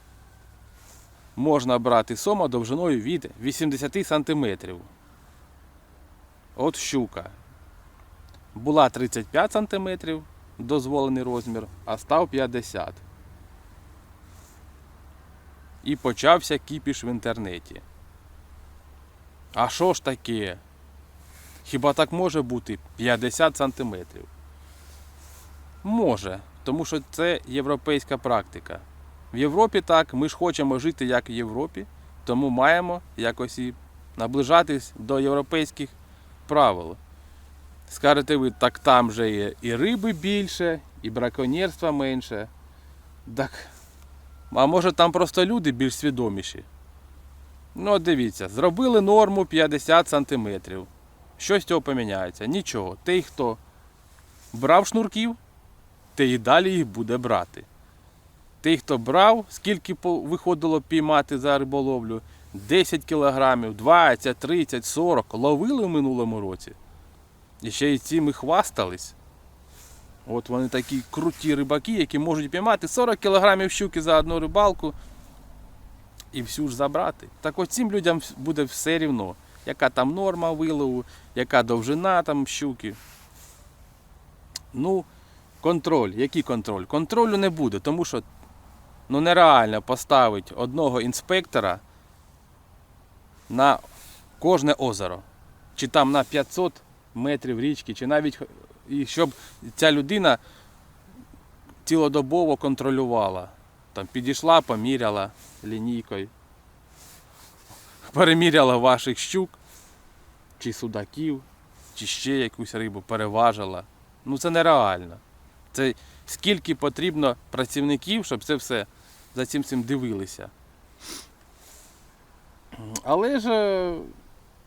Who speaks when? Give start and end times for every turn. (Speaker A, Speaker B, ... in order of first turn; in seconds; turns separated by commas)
Speaker A: 1.4-4.9, Speaker A: 6.5-7.3, Speaker A: 8.5-13.0, Speaker A: 15.8-17.8, Speaker A: 19.5-20.6, Speaker A: 21.6-24.3, Speaker A: 25.8-35.9, Speaker A: 36.5-37.0, Speaker A: 37.9-42.5, Speaker A: 43.2-43.7, Speaker A: 44.5-46.6, Speaker A: 47.7-53.6, Speaker A: 54.5-55.4, Speaker A: 56.1-57.7, Speaker A: 58.6-66.8, Speaker A: 67.6-69.2, Speaker A: 70.2-74.9, Speaker A: 76.3-83.0, Speaker A: 84.7-85.1, Speaker A: 85.6-88.2, Speaker A: 89.1-91.8, Speaker A: 93.5-93.8, Speaker A: 94.4-95.2, Speaker A: 95.8-100.4, Speaker A: 101.8-106.3, Speaker A: 108.0-109.6, Speaker A: 110.6-115.2, Speaker A: 115.7-120.5, Speaker A: 122.7-124.1